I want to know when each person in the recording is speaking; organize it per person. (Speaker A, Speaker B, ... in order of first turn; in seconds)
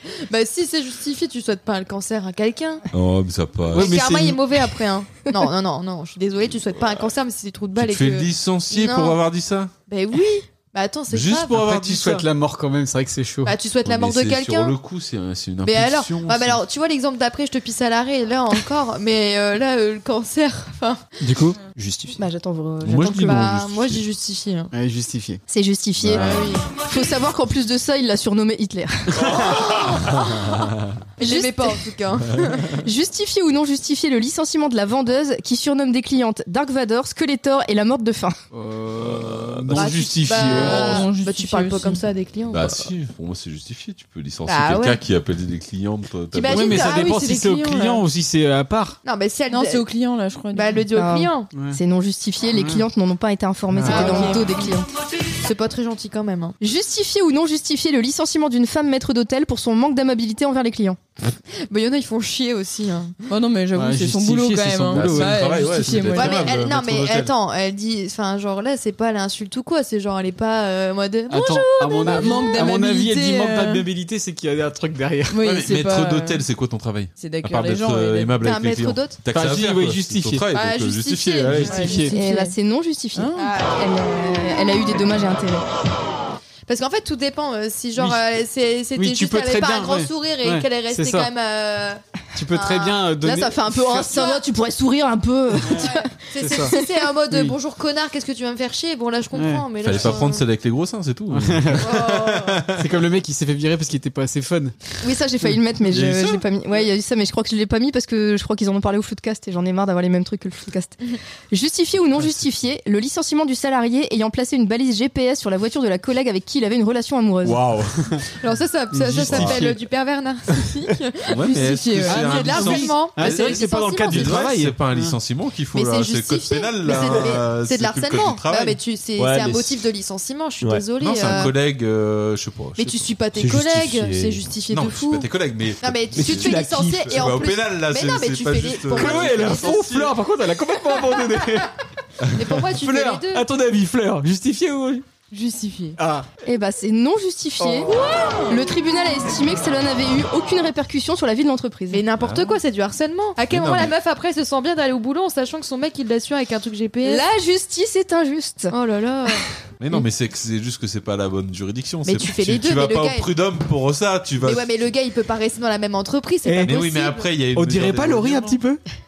Speaker A: 0.3-2.8, 3.7-9.2, 9.9-11.6, 13.4-14.8, 15.6-21.0, 23.2-24.7, 26.1-26.7, 29.2-30.5, 31.2-32.7, 39.7-42.9, 44.5-45.0, 46.3-48.0, 49.0-49.9, 50.5-51.5, 53.8-54.6, 55.4-56.6, 61.6-63.2, 66.1-72.6, 78.4-79.2, 80.5-82.1, 83.4-83.8, 86.7-93.1, 94.1-94.4, 95.7-100.5, 101.8-102.6, 118.4-124.4, 125.7-131.6, 132.8-139.9, 142.3-143.5, 145.3-146.0, 147.9-148.6, 151.9-157.2, 158.7-159.4, 162.1-163.3, 164.4-167.3
Speaker B: 2.9-3.9, 7.8-9.7, 11.1-12.3, 13.8-16.6, 22.8-24.0, 26.0-26.4, 42.5-47.0, 53.7-54.4, 64.9-67.3, 75.4-82.0, 99.8-102.9, 105.9-106.5, 117.4-118.2, 119.3-119.6, 121.3-128.8, 131.0-133.1, 134.7-140.2, 152.2-152.6, 153.5-153.9, 159.8-164.7, 166.6-168.6
Speaker C: 3.7-4.4, 11.5-13.6, 21.2-21.6, 24.7-25.4, 38.5-41.0, 46.5-49.0, 51.5-51.8, 52.5-52.9, 63.8-66.1, 71.3-75.4, 79.3-80.5, 81.5-82.2, 89.0-91.3, 92.3-94.3, 96.4-96.8, 99.3-100.0, 101.3-102.0, 102.7-104.8, 118.9-119.8, 122.1-125.2, 138.9-141.7, 142.3-145.1, 146.0-146.3, 166.4-166.8, 167.5-168.8
Speaker D: 21.8-22.2, 129.2-129.8, 133.3-134.4, 136.2-137.1
Speaker E: 22.2-23.5, 25.5-29.4, 31.2-31.9, 32.7-38.4, 50.9-54.9, 56.6-61.0, 82.1-85.7, 93.2-96.9, 105.0-111.0, 111.5-117.6, 146.4-148.0, 148.5-152.1, 157.0-158.7
Speaker F: 40.3-42.0, 49.5-50.8, 63.3-66.5, 72.0-73.9, 75.3-76.4, 77.2-78.4, 81.6-82.5, 83.2-83.6, 121.4-122.2, 147.8-148.4